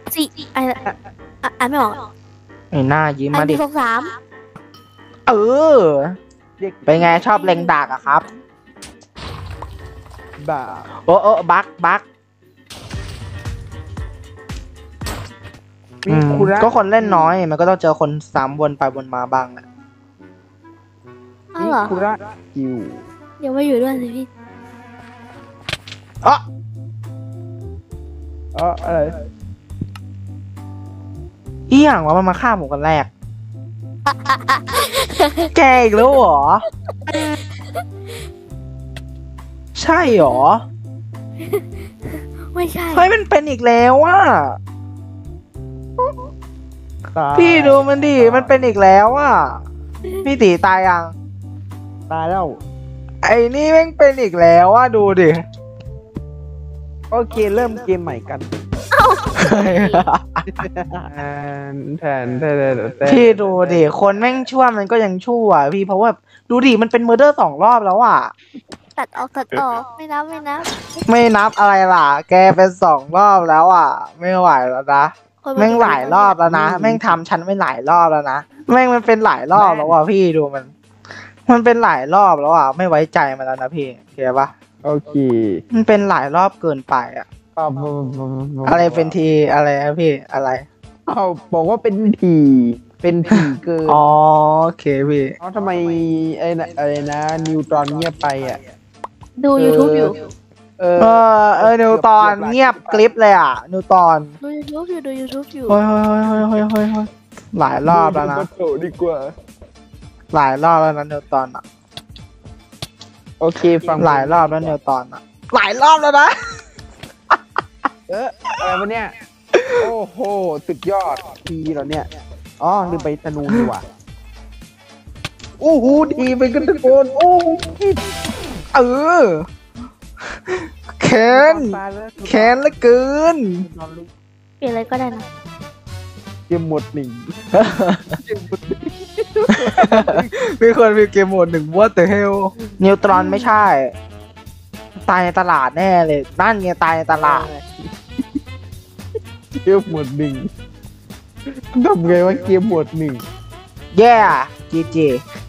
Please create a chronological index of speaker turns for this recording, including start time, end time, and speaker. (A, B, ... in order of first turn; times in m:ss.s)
0:00.1-0:00.8 A
0:01.4-0:02.0 A
0:02.7-0:03.6 B
0:03.3-0:04.2 A
0:05.3-0:06.2 B
0:06.6-0:07.2 C
0:06.8-0:08.2 B
0:06.9-0:08.4 A
0:10.4-0:10.9 C
0:11.0-0:12.0 B
0:16.0-0:17.3 C
0:16.1-0:19.6 B
0:21.5-0:22.0 A
0:21.6-0:23.0 C
0:23.4-0:24.3 A
0:28.5-0:29.2 C
0:31.7-0:33.1 B
0:34.2-0:35.5 A
0:35.5-0:36.6 B
0:37.1-0:37.4 A
0:39.7-0:40.6 B
0:42.5-0:43.1 A
0:42.9-0:44.6 B
0:47.1-0:48.5 C
0:47.3-0:49.6 B
0:50.2-0:51.1 B
0:52.1-0:52.6 C
0:53.2-0:55.4 B
0:57.1-0:58.5 C
0:58.9-1:00.0 A
0:59.3-1:00.5 B
1:00.6-1:04.3 C
1:03.0-1:08.3 B
1:09.0-1:10.7 A
1:11.0-1:20.7 B
1:15.4-1:16.4 A
1:16.4-1:17.2 C
1:19.5-1:20.0 C
1:21.4-1:24.5 B
1:24.8-1:25.6 C
1:25.7-1:27.3 B
1:27.6-1:29.1 C
1:28.6-1:30.6 B
1:31.1-1:34.0 C
1:33.9-1:35.4 B
1:35.4-1:38.6 C
1:39.4-1:40.1 A
1:39.6-1:40.2 C
1:40.8-1:43.0 C
1:41.0-1:44.3 B
1:44.4-1:45.8 A
1:45.7-1:48.5 B
1:47.8-1:49.3 C
1:50.3-1:51.6 B
1:53.4-1:54.8 C
1:54.0-1:56.3 B
1:58.1-1:59.1 C
1:59.5-1:59.8 B
1:59.8-2:02.1 C
2:02.6-2:03.8 C
2:05.6-2:08.0 C
2:08.7-2:09.5 B
2:10.5-2:13.6 B
2:11.3-2:12.9 C
2:13.6-2:14.1 C
2:14.6-2:15.2 A
2:16.5-2:17.3 C
2:17.5-2:18.1 B
2:18.0-2:20.3 C
2:19.5-2:23.9 B
2:22.6-2:23.6 A
2:25.0-2:27.5 B
2:27.2-2:27.7 C
2:29.6-2:30.5 C
2:31.5-2:33.2 C
2:33.9-2:35.2 B